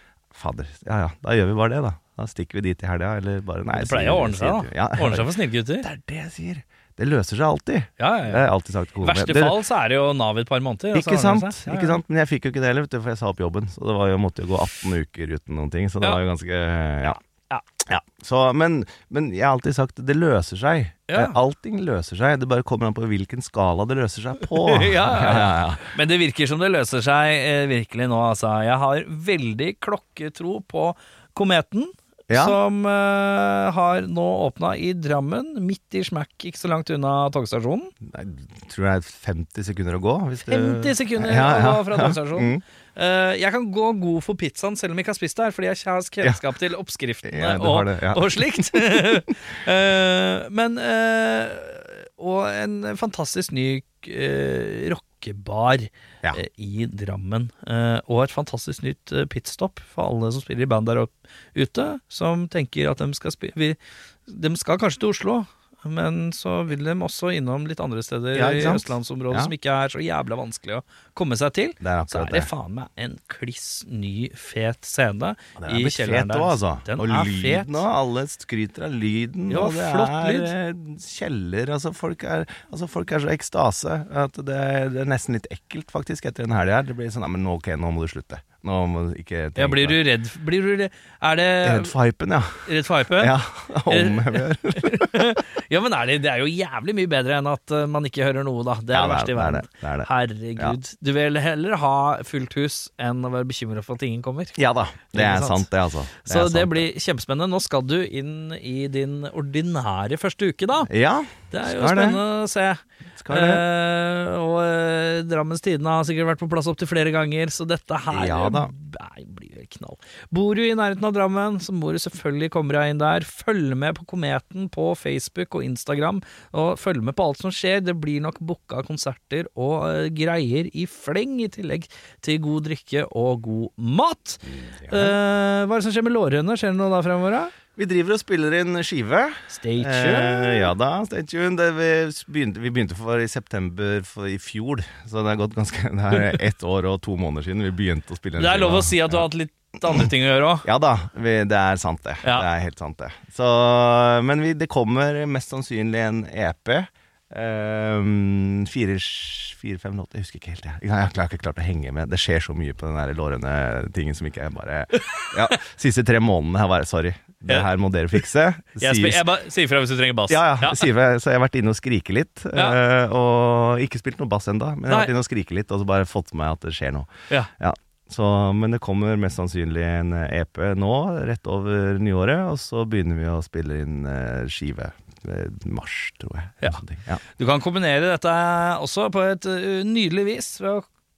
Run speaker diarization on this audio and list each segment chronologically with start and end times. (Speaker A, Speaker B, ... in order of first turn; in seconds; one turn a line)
Speaker A: 0.3-9.6
Speaker B: 3.7-5.9
Speaker B: 8.0-8.5
Speaker B: 9.0-12.0
Speaker A: 10.9-17.2
Speaker B: 17.0-17.6
Speaker A: 17.9-25.9
Speaker B: 21.1-21.4
Speaker B: 24.5-37.9
Speaker A: 32.3-32.6
Speaker A: 38.0-42.6
Speaker B: 40.5-77.8
Speaker A: 47.2-49.2
Speaker A: 68.3-69.5
Speaker A: 71.8-72.5
Speaker A: 75.6-90.0
Speaker B: 79.5-80.5
Speaker B: 89.5-91.9
Speaker A: 91.6-95.2
Speaker B: 92.6-93.4
Speaker B: 93.9-104.6
Speaker A: 98.9-100.8
Speaker A: 104.5-106.9
Speaker B: 105.1-105.7
Speaker B: 106.2-110.9
Speaker A: 110.9-112.2
Speaker B: 111.5-137.5
Speaker A: 113.2-113.6
Speaker A: 118.1-118.7
Speaker A: 134.5-135.2
Speaker A: 137.7-149.2
Speaker B: 139.5-140.7
Speaker B: 148.4-150.7
Speaker A: 150.6-169.2
Speaker B: 165.0-165.5
Speaker B: 168.8-170.9
Speaker A: 170.3-187.2
Speaker B: 187.4-190.8